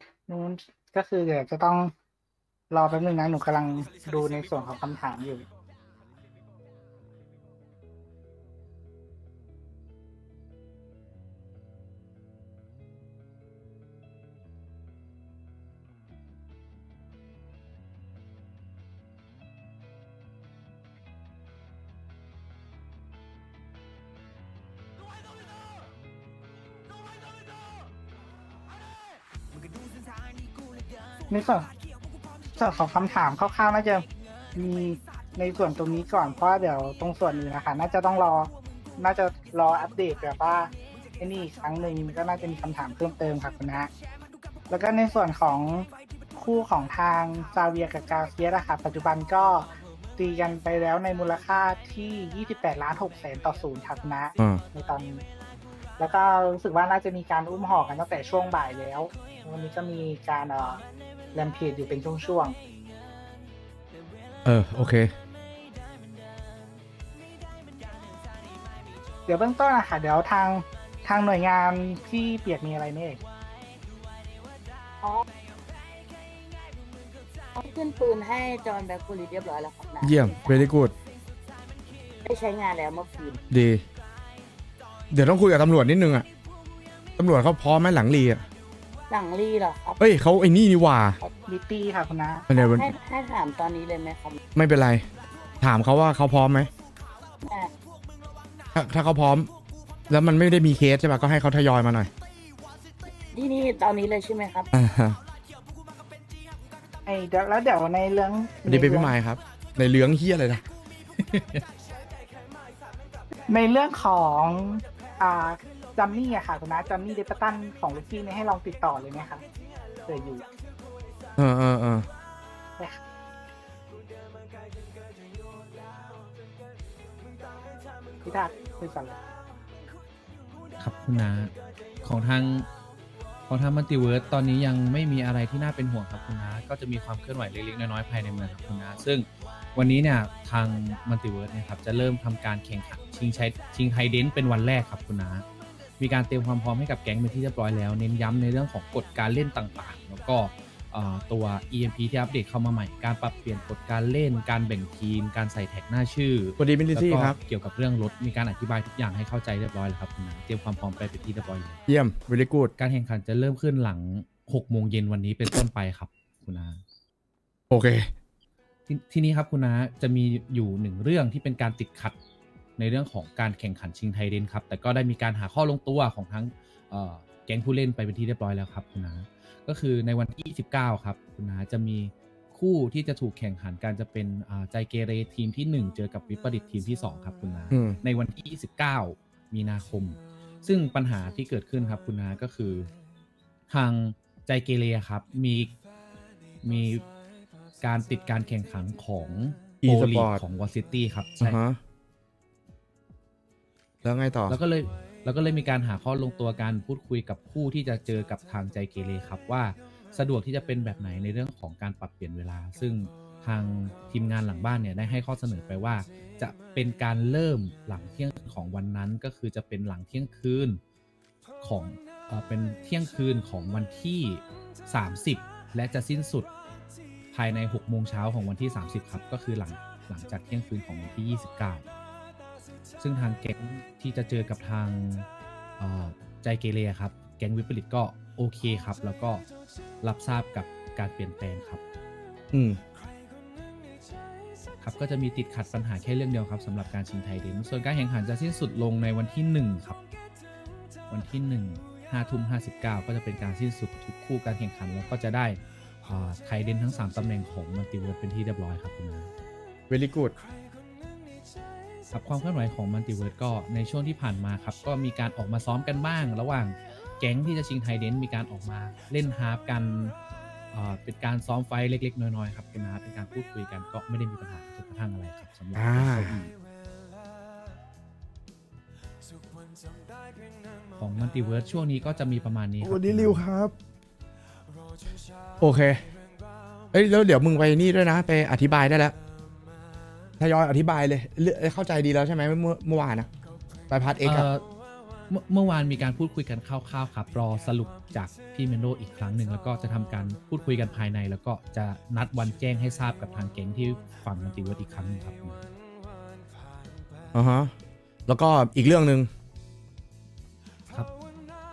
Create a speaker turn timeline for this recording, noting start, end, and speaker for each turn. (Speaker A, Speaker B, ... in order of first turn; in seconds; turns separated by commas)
Speaker A: 0.3-1.9, Speaker A: 2.7-5.5, Speaker A: 31.3-31.7, Speaker A: 32.5-43.9, Speaker A: 44.7-55.2, Speaker A: 56.0-60.8, Speaker A: 61.3-62.5, Speaker B: 64.4-65.1, Speaker A: 69.3-73.2, Speaker C: 77.5-80.7, Speaker B: 80.0-80.9, Speaker C: 82.2-83.4, Speaker B: 83.5-83.8, Speaker B: 85.1-86.2, Speaker B: 87.2-88.5, Speaker C: 89.1-90.0, Speaker B: 90.0-91.2, Speaker A: 91.5-92.5, Speaker B: 92.5-92.9, Speaker C: 92.5-94.4, Speaker B: 94.5-95.0, Speaker B: 95.6-96.7, Speaker C: 97.4-97.7, Speaker B: 98.7-99.5, Speaker B: 100.1-102.1, Speaker C: 103.3-104.7, Speaker B: 104.7-105.2, Speaker A: 107.0-109.1, Speaker B: 108.7-110.6, Speaker D: 111.2-111.6, Speaker A: 113.5-119.4, Speaker A: 120.0-120.4, Speaker B: 121.3-122.1, Speaker A: 128.2-129.2, Speaker D: 130.8-131.5, Speaker D: 132.0-132.7, Speaker D: 133.5-145.4, Speaker D: 146.0-161.8, Speaker B: 156.6-157.4, Speaker B: 161.9-162.7, Speaker D: 162.8-166.8, Speaker B: 167.7-168.1, Speaker D: 168.9-172.2, Speaker D: 172.8-192.9, Speaker B: 187.7-188.0, Speaker D: 193.7-195.7, Speaker D: 196.6-197.0, Speaker D: 197.8-201.6, Speaker B: 199.8-200.4, Speaker B: 201.4-201.8, Speaker B: 204.0-204.6, Speaker D: 204.5-220.8, Speaker D: 221.6-226.5, Speaker D: 227.3-231.9, Speaker D: 233.0-235.3, Speaker D: 235.8-239.4, Speaker D: 240.0-241.8, Speaker B: 242.5-242.8, Speaker D: 244.8-250.0, Speaker D: 251.1-259.3, Speaker B: 259.9-260.4, Speaker D: 262.1-270.1, Speaker D: 270.7-276.5, Speaker B: 275.7-276.4, Speaker D: 280.9-283.4, Speaker B: 282.8-283.7, Speaker B: 285.6-286.0, Speaker B: 286.9-289.1, Speaker B: 290.4-293.3, Speaker B: 293.9-294.5, Speaker D: 294.2-294.6, Speaker D: 295.3-305.6, Speaker B: 307.3-307.7, Speaker B: 308.3-309.3